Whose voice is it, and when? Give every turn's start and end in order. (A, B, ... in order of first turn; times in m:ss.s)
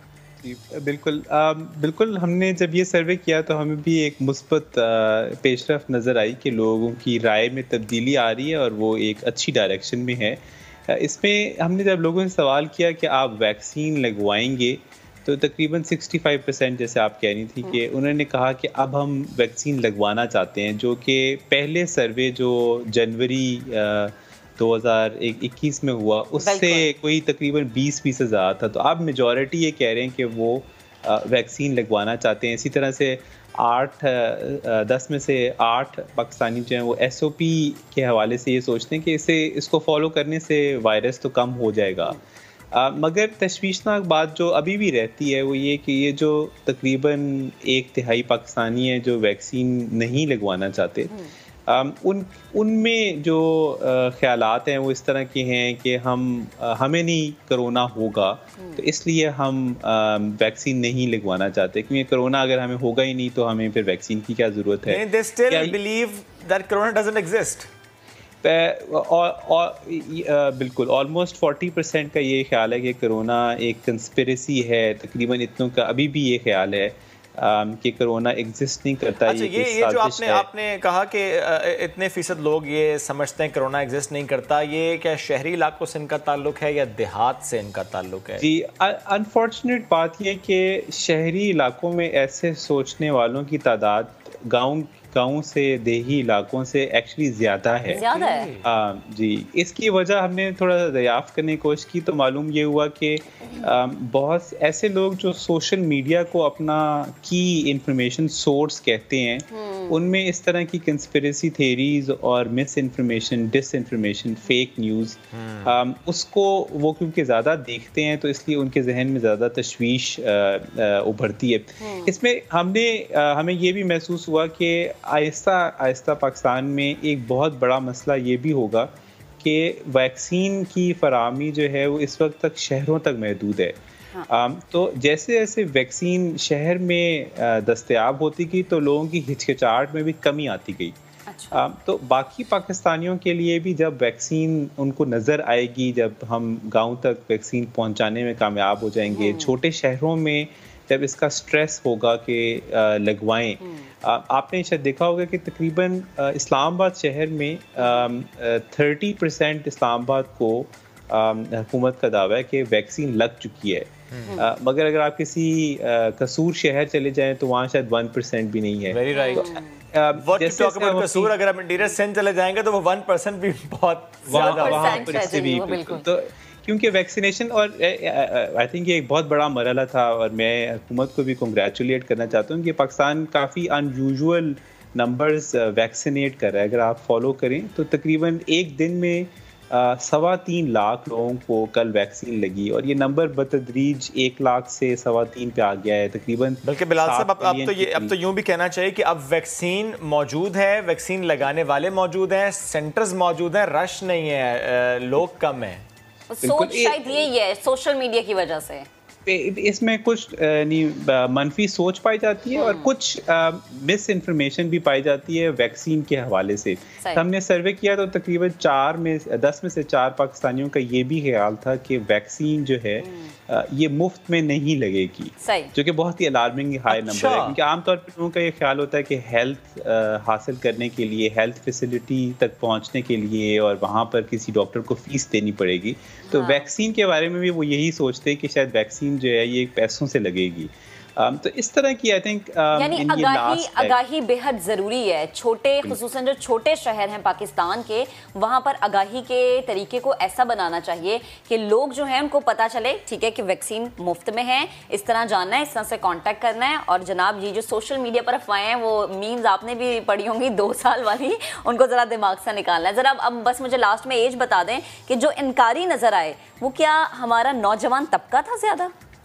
0:00.4-0:42.2 A
0:26.4-0:26.9 B
0:42.7-0:51.1 A
0:51.7-1:05.8 A
1:04.8-1:07.7 C
1:08.4-1:20.4 A
1:19.2-1:28.4 C
1:28.4-1:38.0 A
1:37.9-1:38.6 C
1:37.9-1:38.5 B
1:38.6-2:13.8 A
1:49.5-1:50.0 B
1:55.3-1:55.8 C
2:01.8-2:02.2 B
2:14.3-2:20.9 A
2:21.3-2:21.6 B
2:21.5-2:51.3 A
2:29.1-2:29.5 B
2:33.6-2:33.9 B
2:37.8-2:38.0 B
2:44.2-2:44.5 B
2:48.9-2:49.5 C
2:49.1-2:49.8 B
2:50.2-2:55.1 C
2:54.3-3:18.1 A
2:54.3-2:56.0 B
3:16.6-3:25.8 C
3:26.3-3:28.9 B
3:26.4-3:27.3 A
3:29.2-4:03.9 A
3:32.6-3:32.9 B
3:43.0-3:43.3 B
3:45.4-3:45.7 B
3:46.9-3:47.6 C
3:56.2-3:56.7 B
4:02.7-4:28.9 B